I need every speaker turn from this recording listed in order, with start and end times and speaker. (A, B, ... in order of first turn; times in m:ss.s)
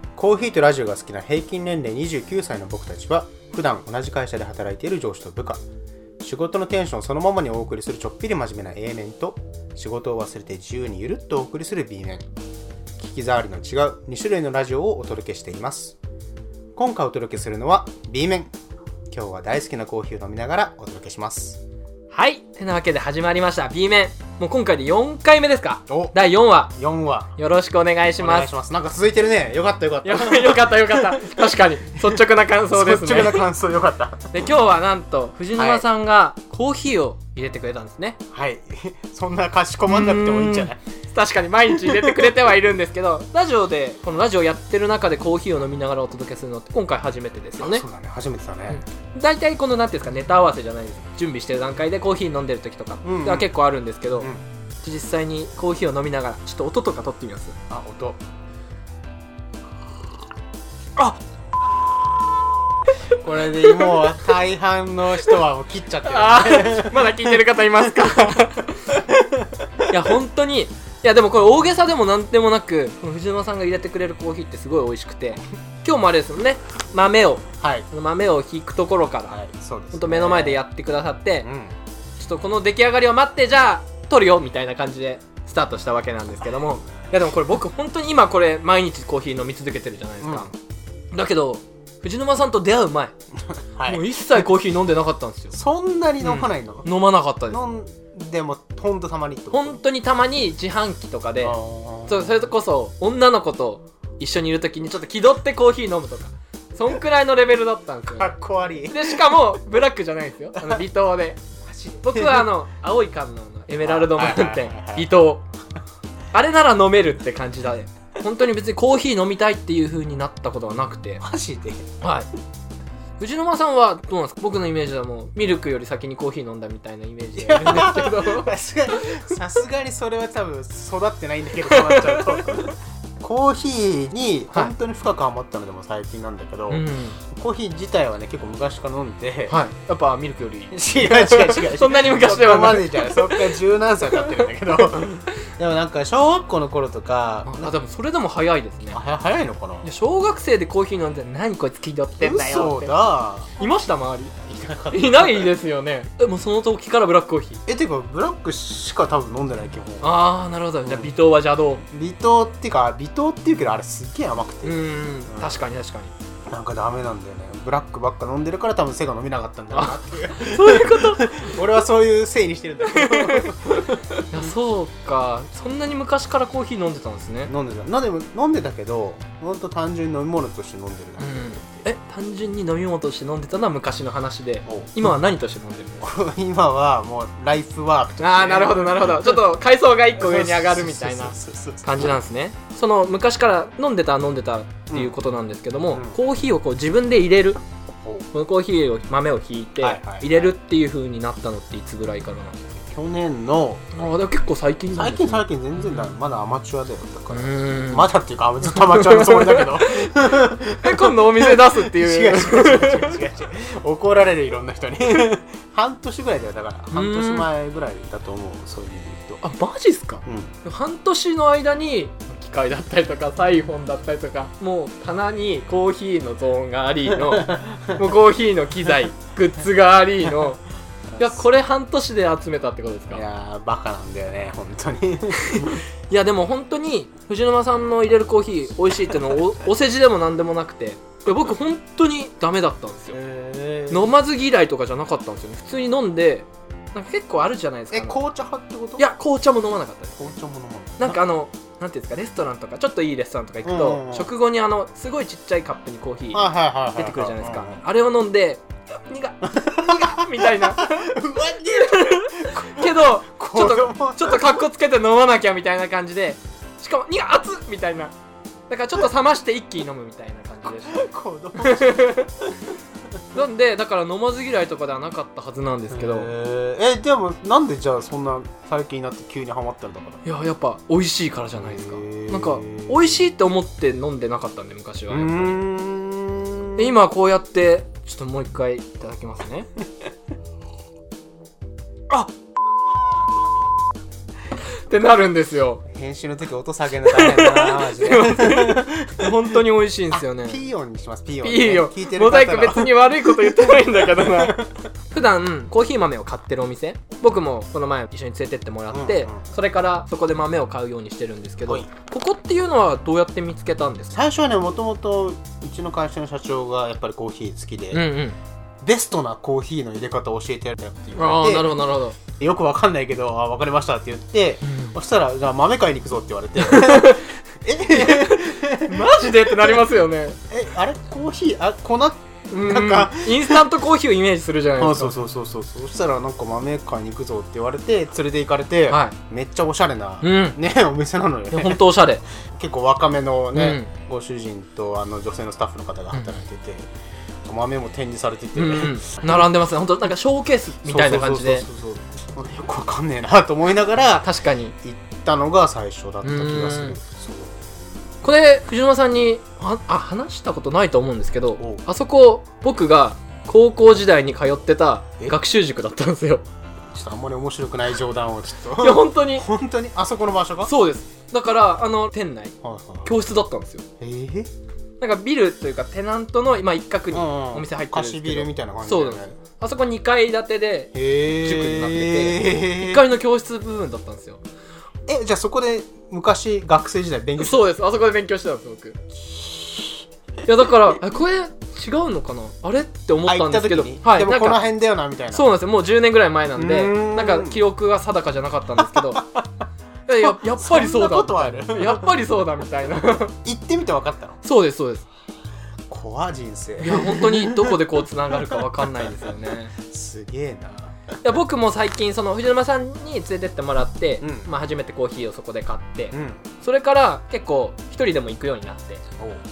0:00.2-0:05.6 A
0:06.2-0:12.3 A
0:13.0-0:16.0 A
0:16.8-0:18.5 A
0:19.1-0:21.6 A
0:22.1-0:26.7 B
0:25.9-0:27.3 A
0:27.4-0:28.5 B
0:28.2-0:31.5 A
0:30.0-0:33.5 B
0:32.0-0:34.4 A
0:34.3-0:38.2 B
0:35.6-0:35.9 A
0:38.3-0:40.8 A
0:39.9-0:47.8 B
0:41.7-0:42.4 A
0:47.6-0:48.8 A
0:48.7-0:54.3 B
0:53.0-0:53.5 A
0:54.1-0:54.4 A
0:54.8-0:57.6 B
0:57.7-0:58.2 A
1:03.2-1:08.4 A
1:03.5-1:04.1 B
1:06.0-1:09.0 B
1:08.9-1:09.4 A
1:09.9-1:19.4 B
1:17.6-1:17.9 A
1:19.3-1:20.6 A
1:19.9-1:21.5 B
1:21.4-1:21.7 A
1:22.2-1:30.5 B
1:30.2-1:30.5 A
1:31.1-1:33.1 B
1:33.7-1:34.4 A
1:33.8-1:35.6 B
1:35.5-1:36.9 A
1:36.2-1:37.6 B
1:37.5-1:39.8 A
1:39.5-1:41.6 B
1:41.4-1:42.4 A
1:42.1-1:48.3 B
1:48.1-1:49.5 A
1:48.9-1:51.4 B
1:50.6-1:50.8 A
1:51.6-1:52.5 A
1:52.0-1:55.4 B
1:53.8-1:55.1 A
1:56.3-2:01.2 B
2:01.2-2:01.9 A
2:02.0-2:02.3 B
2:03.2-2:08.5 B
2:07.4-2:19.6 A
2:11.6-2:12.6 B
2:16.7-2:17.2 B
2:19.5-2:23.5 B
2:20.7-2:27.7 A
2:24.2-2:24.8 B
2:27.5-2:29.0 B
2:28.9-2:29.9 A
2:29.8-2:33.0 B
2:32.2-2:33.6 A
2:33.6-2:34.3 B
2:34.4-2:35.5 A
2:34.9-2:37.6 B
2:37.7-2:40.1 A
2:40.0-2:41.8 B
2:40.8-2:41.1 A
2:41.9-2:45.6 A
2:44.6-2:46.1 B
2:46.5-2:54.6 A
2:49.7-2:51.6 B
2:52.9-2:57.5 B
2:57.5-3:01.9 A
3:01.2-3:06.1 B
3:04.7-3:05.1 A
3:06.0-3:09.4 A
3:08.2-3:17.6 B
3:10.1-3:12.2 A
3:14.9-3:15.2 A
3:15.9-3:16.2 A
3:18.3-3:22.6 B
3:19.8-3:20.6 A
3:22.8-3:24.1 A
3:23.9-3:26.2 B
3:24.9-3:39.4 A
3:27.3-3:28.1 B
3:28.7-3:30.1 B
3:30.8-3:33.2 B
3:36.9-3:37.5 B
3:39.4-3:50.6 B
3:40.2-3:40.5 A
3:47.1-3:48.0 A
3:51.2-3:53.2 B
3:53.1-3:55.8 A
3:55.5-4:03.2 B
4:03.1-4:04.1 A
4:03.9-4:08.2 B
4:07.9-4:09.1 A
4:09.0-4:10.2 B
4:10.2-4:11.2 A
4:11.0-4:21.1 B
4:13.6-4:14.3 A
4:16.3-4:17.8 A
4:19.4-4:24.7 A
4:21.8-4:28.1 B
4:28.7-4:31.1 B
4:30.6-4:32.4 A
4:31.6-4:32.3 B
4:33.3-4:36.3 B
4:35.9-4:40.2 A
4:40.2-4:45.6 B
4:41.6-4:43.0 A
4:45.1-4:47.0 A
4:46.8-4:49.7 B
4:54.9-4:55.8 B
4:55.9-4:59.6 A
4:57.0-5:00.6 B
5:00.1-5:04.8 A
5:01.4-5:04.6 B
5:05.1-5:14.1 B
5:08.9-5:09.4 A
5:14.1-5:18.0 A
5:17.9-5:18.4 B
5:18.8-5:21.8 A
5:21.2-5:22.2 B
5:22.4-5:29.8 A
5:24.6-5:25.0 B
5:26.6-5:27.3 B
5:27.9-5:30.4 B
5:30.5-5:33.7 A
5:32.5-5:35.2 B
5:34.8-5:41.8 A
5:38.9-5:39.2 B
5:40.2-5:40.6 B
5:41.5-5:42.2 B
5:42.4-5:46.9 A
5:43.5-5:43.9 B
5:46.1-5:46.4 B
5:47.4-5:49.5 A
5:48.6-5:51.7 B
5:50.8-5:54.3 A
5:54.2-5:54.7 B
5:54.8-5:57.5 A
5:56.2-5:57.0 B
5:58.2-6:06.4 B
6:01.6-6:01.8 A
6:06.9-6:10.7 A
6:08.8-6:09.5 B
6:10.6-6:13.8 B
6:12.6-6:13.1 A
6:14.0-6:14.5 A
6:15.0-6:24.4 B
6:17.1-6:19.4 A
6:21.0-6:23.0 A
6:25.1-6:27.6 A
6:27.4-6:29.0 B
6:29.2-6:30.0 A
6:30.4-6:34.6 B
6:33.2-6:35.5 A
6:35.3-6:39.2 B
6:36.6-6:37.6 A
6:38.8-6:39.2 A
6:40.1-6:43.3 B
6:40.2-6:42.2 A
6:43.4-6:44.4 A
6:44.4-6:45.1 B
6:45.9-6:49.2 A
6:46.8-6:49.7 B
6:49.8-6:51.0 A
6:51.2-6:59.0 B
6:54.2-6:54.5 A
6:56.1-6:56.4 A